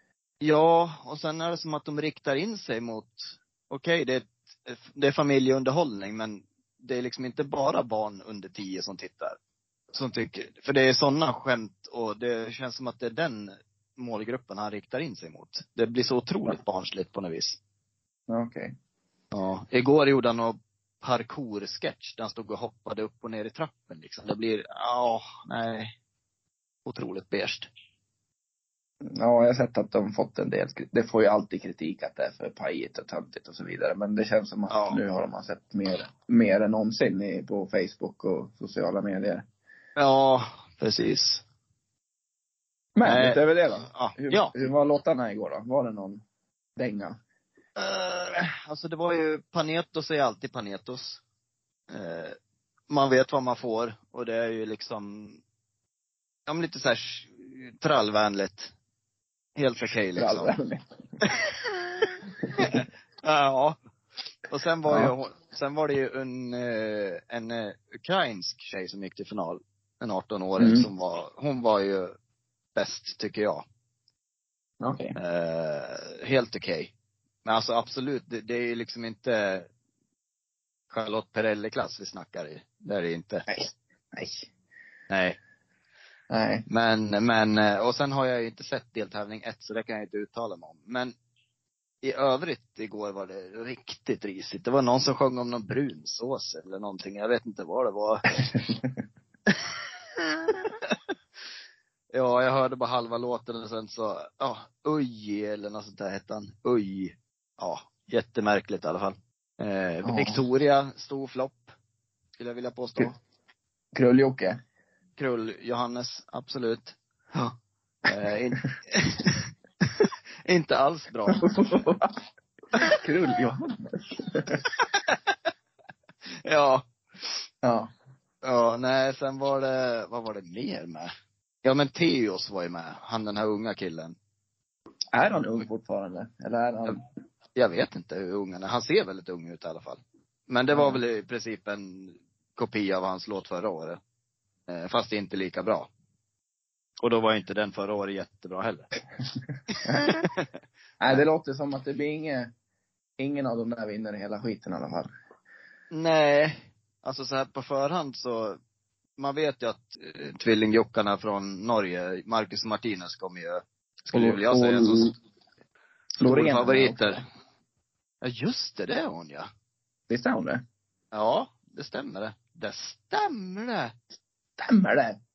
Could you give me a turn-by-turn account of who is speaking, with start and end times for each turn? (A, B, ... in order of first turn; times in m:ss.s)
0:00.4-0:09.4 A
0:09.9-0:17.6 A
0:18.3-0:18.7 B
0:19.3-0:26.0 A
0:26.9-0:27.7 A
0:29.0-0:39.4 B
0:34.7-0:35.0 A
0:40.0-0:41.4 A
0:43.0-0:46.2 B
0:43.0-0:44.5 A
0:46.8-0:47.2 B
0:47.8-0:51.2 A
0:51.9-0:52.4 A
0:52.9-0:55.4 A
0:56.5-0:58.7 A
0:59.6-1:00.5 A
1:00.2-1:00.8 B
1:01.2-1:03.8 A
1:04.5-1:12.2 A
1:04.9-1:05.1 B
1:10.6-1:10.9 B
1:12.8-1:13.6 A
1:14.8-1:15.2 B
1:15.2-1:16.9 A
1:17.4-1:19.7 A
1:20.9-1:23.5 A
1:23.5-1:24.5 B
1:25.1-1:25.4 A
1:26.3-1:26.7 B
1:26.7-1:31.2 A
1:32.0-1:38.3 A
1:38.5-1:38.8 B
1:40.5-1:41.0 A
1:42.1-1:51.7 A
1:50.0-1:50.4 B
1:52.4-1:53.2 A
1:53.9-1:54.6 B
1:55.2-2:01.4 A
2:01.3-2:02.1 B
2:02.8-2:04.6 B
2:04.8-2:05.2 A
2:06.4-2:07.3 A
2:07.6-2:07.9 B
2:08.4-2:11.1 A
2:11.6-2:14.2 A
2:15.1-2:17.0 B
2:17.6-2:24.0 A
2:20.7-2:21.0 B
2:24.7-2:25.9 A
2:27.0-2:28.9 A
2:29.7-2:30.5 A
2:31.0-2:32.5 B
2:33.2-2:35.1 B
2:35.9-2:38.6 A
2:39.2-2:45.1 A
2:44.1-2:45.1 B
2:46.2-2:47.2 B
2:46.2-2:47.2 A
2:48.2-2:49.5 A
2:50.1-2:50.6 B
2:51.1-2:53.9 A
2:54.6-2:55.2 B